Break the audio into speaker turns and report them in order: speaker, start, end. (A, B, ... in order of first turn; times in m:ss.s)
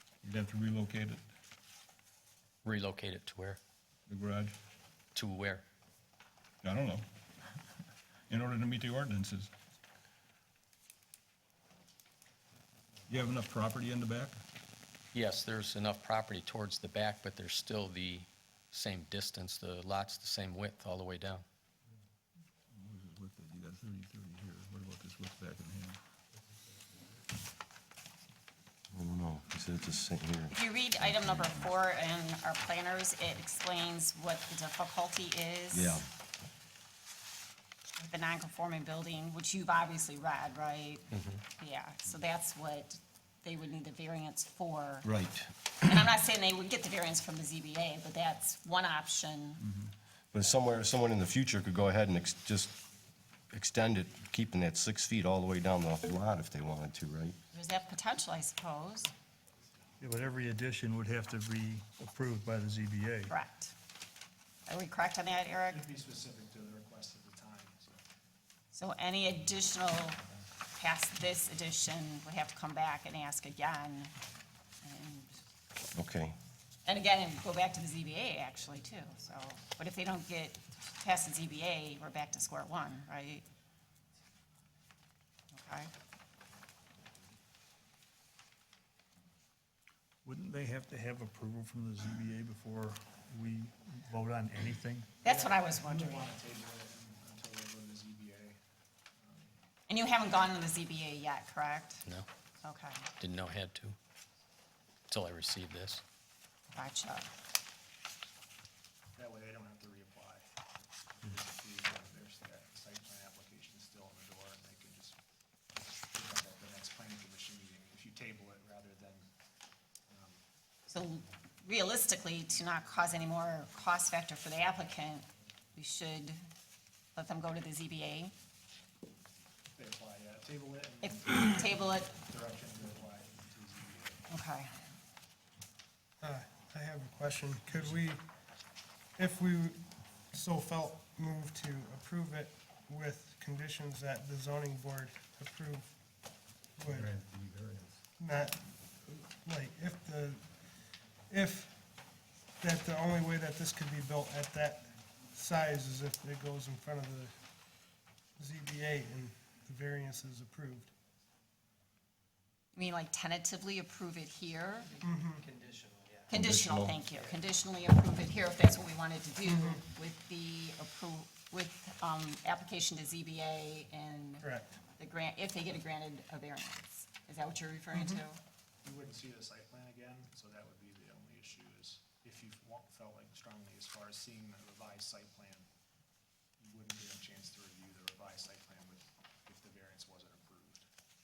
0:00.2-0:01.2 A
0:02.6-0:03.6 B
0:04.1-0:04.5 A
0:05.2-0:05.6 B
0:06.6-0:07.1 A
0:08.3-0:09.5 A
0:13.1-0:14.4 A
0:15.1-0:21.4 B
0:22.7-0:26.0 A
0:28.9-0:30.5 C
0:30.5-0:36.0 D
0:35.7-0:36.1 C
0:38.0-0:45.1 D
0:45.0-0:45.3 C
0:45.8-0:49.6 D
0:50.3-0:52.8 C
0:53.5-0:57.4 C
0:57.5-0:59.1 D
1:00.0-1:03.3 E
1:03.3-1:03.7 D
1:04.7-1:05.9 D
1:05.7-1:08.0 F
1:08.7-1:10.2 D
1:10.8-1:14.1 D
1:14.8-1:15.3 D
1:16.0-1:16.3 C
1:16.8-1:23.4 D
1:25.5-1:25.9 D
1:30.2-1:35.1 E
1:35.2-1:36.3 D
1:35.2-1:38.6 F
1:39.2-1:39.5 F
1:39.9-1:42.0 D
1:42.6-1:43.1 D
1:43.2-1:44.0 B
1:45.1-1:46.0 B
1:46.7-1:47.3 D
1:49.2-1:50.4 F
1:51.2-1:55.2 F
1:56.1-1:59.3 F
2:00.1-2:00.4 F
2:00.9-2:06.4 D
2:07.2-2:08.3 D
2:09.8-2:14.2 F
2:11.0-2:12.1 D
2:14.3-2:14.7 D
2:16.2-2:18.2 G
2:19.2-2:19.8 G
2:20.3-2:25.9 G
2:26.8-2:27.2 G
2:27.0-2:27.9 A
2:28.2-2:30.5 G
2:31.3-2:31.8 G
2:32.6-2:37.3 G
2:38.4-2:40.9 G
2:42.7-2:45.0 D
2:45.0-2:45.5 G
2:46.3-2:58.4 D
2:46.4-2:46.9 C
2:49.4-2:49.8 G
2:54.4-2:54.7 G
2:57.9-2:58.2 G
2:58.8-3:05.7 F
3:06.6-3:10.9 F